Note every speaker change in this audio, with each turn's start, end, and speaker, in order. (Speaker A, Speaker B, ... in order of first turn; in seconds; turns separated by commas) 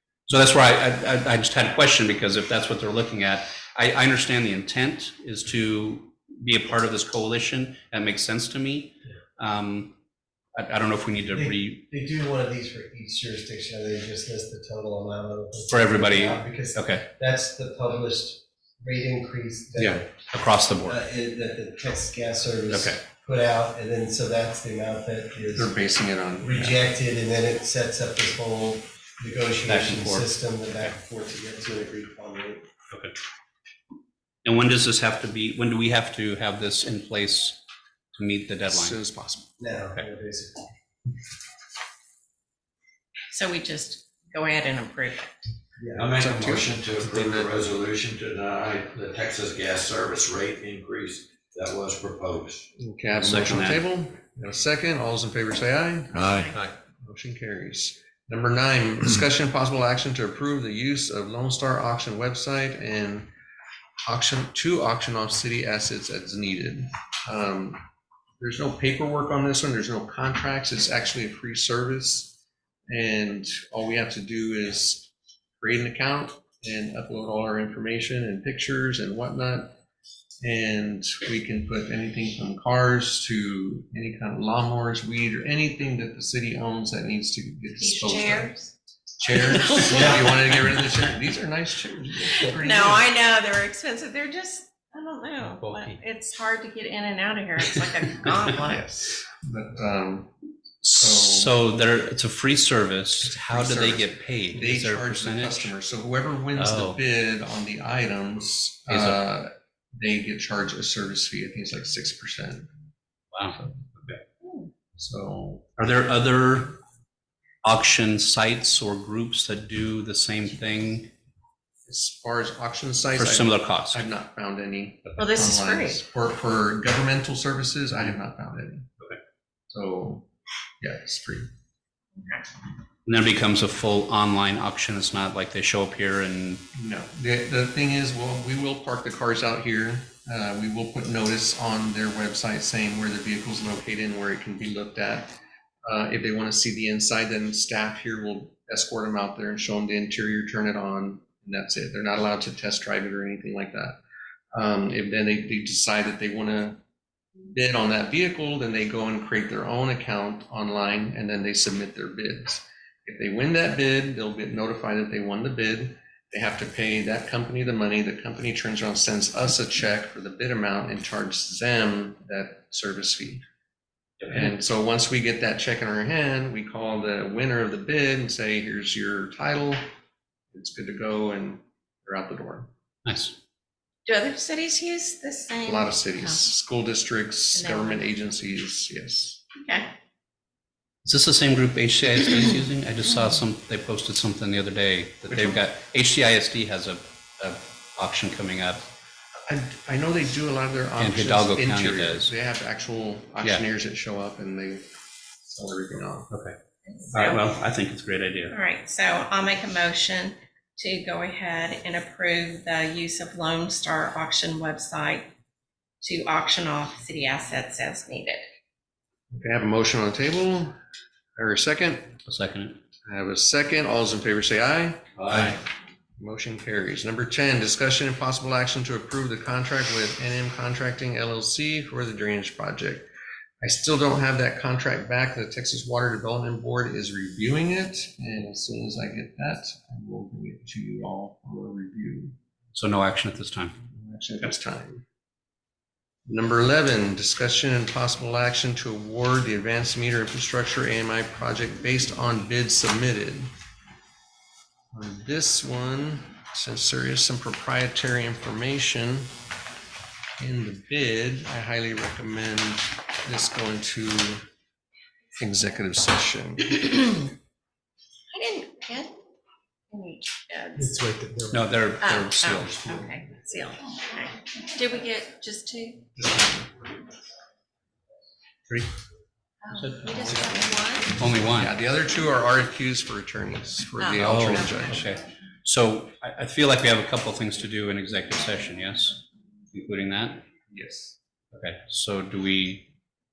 Speaker A: 0.3-10.0, Speaker A: 10.5-11.8, Speaker B: 11.3-20.2, Speaker A: 15.7-17.1, Speaker A: 19.8-21.0, Speaker B: 20.8-25.7, Speaker A: 22.7-23.0, Speaker C: 25.5-26.8, Speaker B: 26.4-32.6, Speaker A: 29.7-30.9, Speaker A: 32.9-33.1, Speaker A: 34.5-37.6, Speaker A: 38.1-39.0, Speaker C: 38.7-39.5, Speaker B: 39.6-40.7, Speaker D: 43.3-45.3, Speaker B: 45.8-46.2, Speaker E: 46.0-52.6, Speaker C: 46.2-47.5, Speaker C: 52.8-56.2, Speaker A: 53.2-53.9, Speaker E: 56.1-56.5, Speaker D: 56.2-56.6, Speaker C: 57.0-63.3, Speaker C: 64.0-67.8, Speaker C: 68.4-72.4, Speaker C: 72.9-79.8, Speaker C: 80.4-88.5, Speaker D: 87.8-88.7, Speaker C: 89.2-93.1, Speaker D: 89.5-90.4, Speaker B: 89.9-90.2, Speaker D: 92.4-98.9, Speaker A: 95.4-96.0, Speaker C: 98.5-100.3, Speaker A: 100.8-105.7, Speaker C: 101.0-101.6, Speaker C: 103.2-112.7, Speaker A: 106.5-107.0, Speaker A: 108.9-109.2, Speaker A: 113.3-114.2, Speaker D: 114.4-114.7, Speaker C: 115.0-115.8, Speaker A: 115.8-116.8, Speaker A: 117.6-121.1, Speaker C: 121.9-128.9, Speaker A: 123.2-124.0, Speaker D: 125.2-126.0, Speaker C: 129.7-130.2, Speaker C: 130.8-131.5, Speaker D: 132.2-132.4, Speaker A: 133.1-136.6, Speaker C: 136.8-154.0, Speaker C: 154.6-156.8, Speaker C: 157.5-173.4, Speaker A: 174.2-174.5, Speaker C: 174.3-179.8, Speaker C: 180.5-182.7, Speaker A: 183.1-183.4, Speaker D: 184.1-186.4, Speaker C: 185.6-189.4, Speaker D: 187.6-188.0, Speaker D: 189.6-189.9, Speaker A: 191.1-198.8, Speaker C: 195.3-195.6, Speaker C: 199.5-204.9, Speaker A: 201.0-202.3, Speaker A: 203.4-203.7, Speaker C: 205.5-206.3, Speaker A: 206.3-206.6, Speaker D: 206.9-207.4, Speaker A: 207.1-208.6, Speaker D: 208.5-215.3, Speaker D: 216.0-218.4, Speaker C: 219.3-220.8, Speaker C: 221.4-222.1, Speaker A: 222.2-222.8, Speaker C: 223.1-225.5, Speaker E: 225.2-225.6, Speaker C: 226.2-233.1, Speaker C: 233.6-242.3, Speaker A: 242.7-243.8, Speaker C: 243.9-245.0, Speaker C: 246.2-253.5, Speaker C: 254.9-259.3, Speaker C: 260.4-264.4, Speaker C: 265.4-266.8, Speaker D: 266.8-267.2, Speaker D: 268.3-269.1, Speaker D: 269.9-271.0, Speaker B: 270.8-271.7, Speaker A: 271.5-273.1, Speaker D: 272.0-276.1, Speaker C: 276.1-276.8, Speaker D: 279.6-281.2, Speaker A: 279.7-280.4, Speaker C: 280.1-285.0, Speaker A: 281.1-281.8, Speaker D: 284.0-285.0, Speaker A: 284.2-289.2, Speaker A: 289.7-290.4, Speaker C: 290.7-291.2, Speaker A: 291.5-292.9